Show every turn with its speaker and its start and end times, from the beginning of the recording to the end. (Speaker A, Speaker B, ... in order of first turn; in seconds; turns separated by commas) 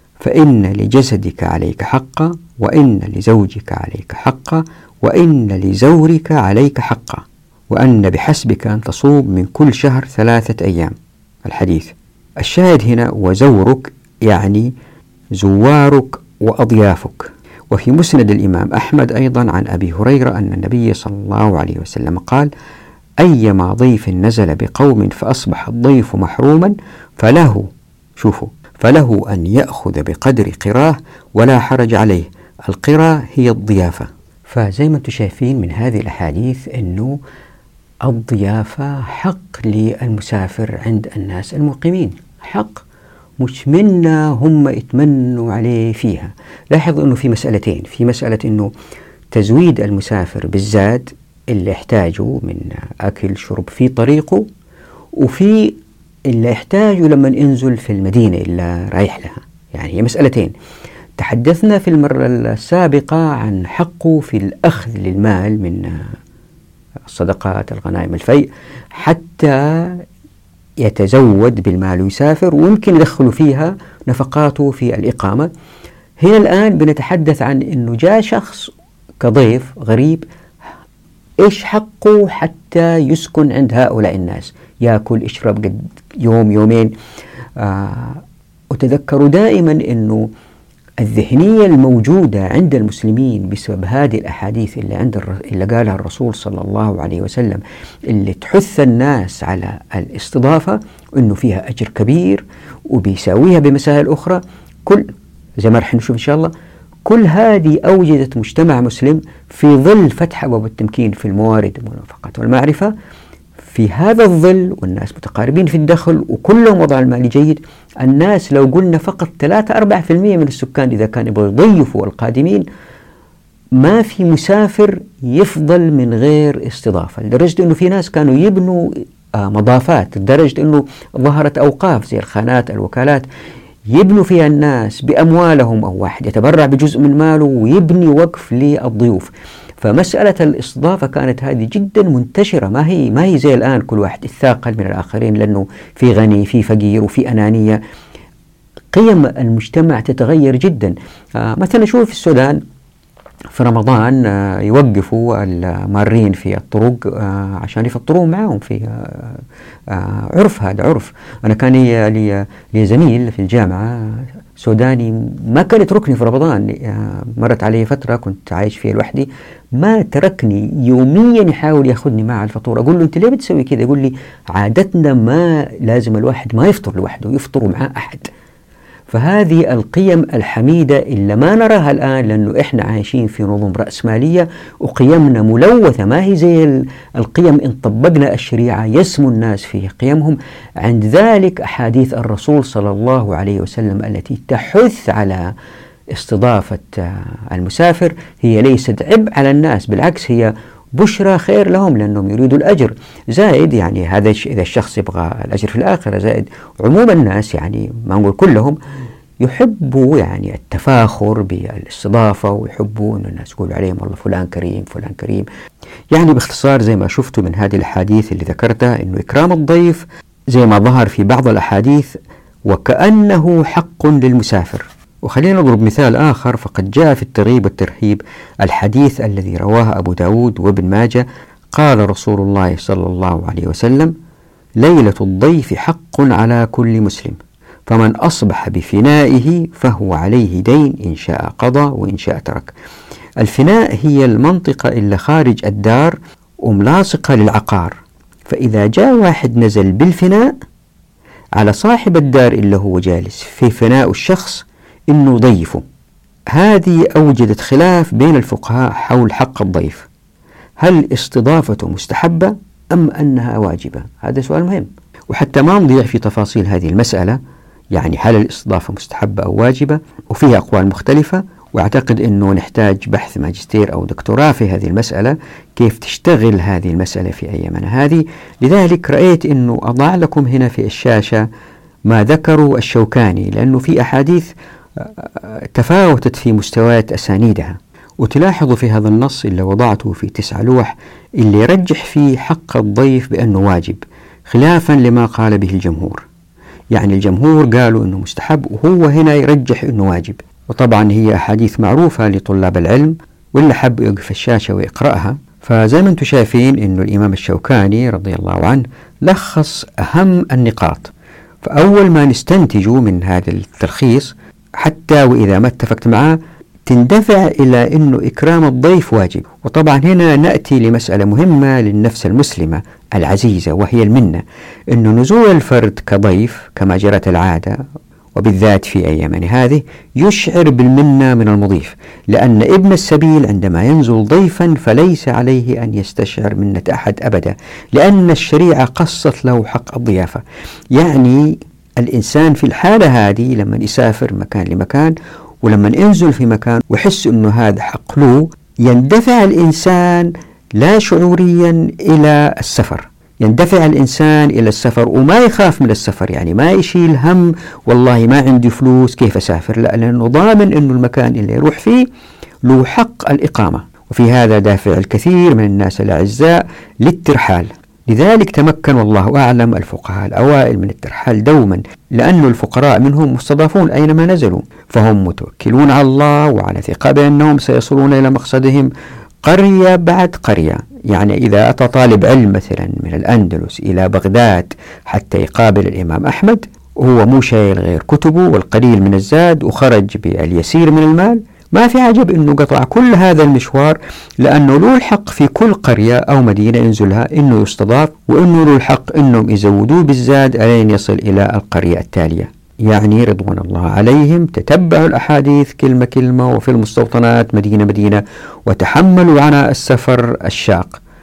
Speaker A: 0.2-10.9, Speaker A: 11.4-14.7, Speaker A: 15.4-22.5, Speaker A: 23.2-37.1, Speaker A: 38.0-42.8, Speaker A: 43.4-48.7, Speaker A: 49.3-54.4, Speaker A: 55.2-55.8, Speaker A: 56.3-60.5, Speaker A: 61.2-66.1, Speaker A: 67.1-70.0, Speaker A: 70.8-75.5, Speaker A: 76.2-78.7, Speaker A: 79.2-80.2, Speaker A: 81.4-86.9, Speaker A: 87.6-90.3, Speaker A: 91.0-105.1, Speaker A: 105.6-106.5, Speaker A: 107.0-112.9, Speaker A: 113.7-122.7, Speaker A: 123.8-133.2, Speaker A: 133.9-139.3, Speaker A: 139.8-147.8, Speaker A: 148.9-152.6, Speaker A: 153.5-178.3, Speaker A: 179.1-195.5, Speaker A: 196.1-208.8, Speaker A: 209.4-215.5, Speaker A: 216.1-234.1, Speaker A: 234.8-242.7, Speaker A: 243.4-250.6, Speaker A: 251.6-255.8, Speaker A: 256.5-260.1, Speaker A: 260.8-267.4, Speaker A: 267.9-281.4, Speaker A: 282.1-296.2, Speaker A: 296.9-311.1, Speaker A: 311.6-327.8, Speaker A: 328.3-340.4, Speaker A: 340.9-362.1, Speaker A: 362.6-378.9, Speaker A: 379.4-411.0